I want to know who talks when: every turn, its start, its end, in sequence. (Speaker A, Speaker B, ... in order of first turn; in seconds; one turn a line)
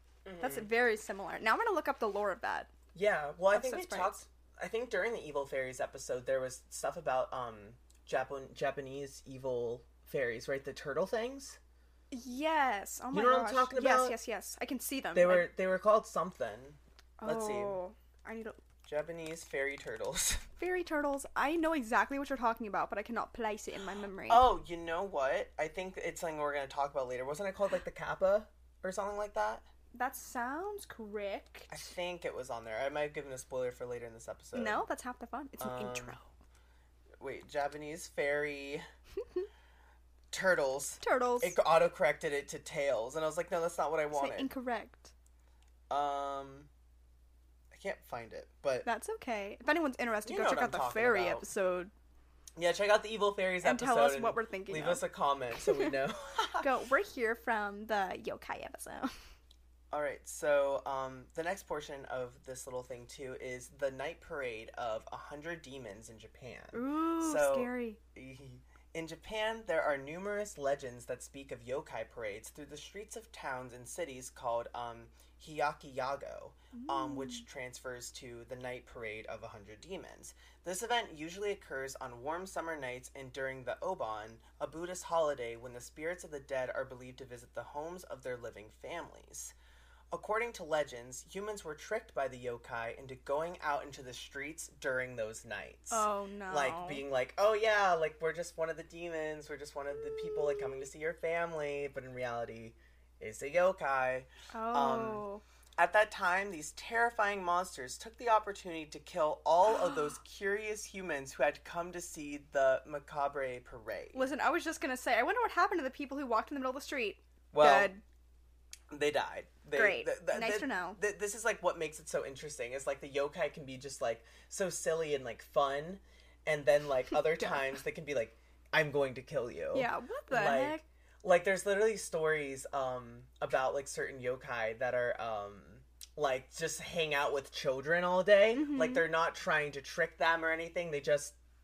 Speaker A: 0.2-0.7
Speaker B: 0.4-2.7
Speaker A: 2.9-11.6
Speaker B: 3.5-4.2
Speaker B: 12.1-15.5
Speaker A: 13.1-14.2
Speaker A: 15.1-17.8
Speaker B: 17.2-18.6
Speaker A: 18.8-20.4
Speaker B: 20.6-24.5
Speaker A: 24.3-29.6
Speaker B: 29.9-31.7
Speaker A: 31.7-34.8
Speaker B: 34.5-36.3
Speaker A: 35.6-36.2
Speaker A: 37.2-38.8
Speaker A: 40.3-44.5
Speaker B: 41.0-41.5
Speaker B: 44.1-45.1
Speaker A: 45.9-46.7
Speaker A: 47.7-48.9
Speaker B: 48.8-51.9
Speaker A: 50.2-51.5
Speaker A: 52.5-56.7
Speaker B: 53.6-55.0
Speaker B: 55.5-56.0
Speaker B: 56.5-59.1
Speaker A: 59.9-89.5
Speaker B: 66.7-68.0
Speaker B: 76.7-77.4
Speaker A: 90.1-105.2
Speaker B: 95.9-97.0
Speaker B: 104.5-105.4
Speaker A: 105.8-114.3
Speaker B: 114.1-118.0
Speaker A: 117.5-117.9
Speaker A: 118.9-141.3
Speaker B: 119.7-121.0
Speaker B: 129.7-130.8
Speaker B: 138.5-139.1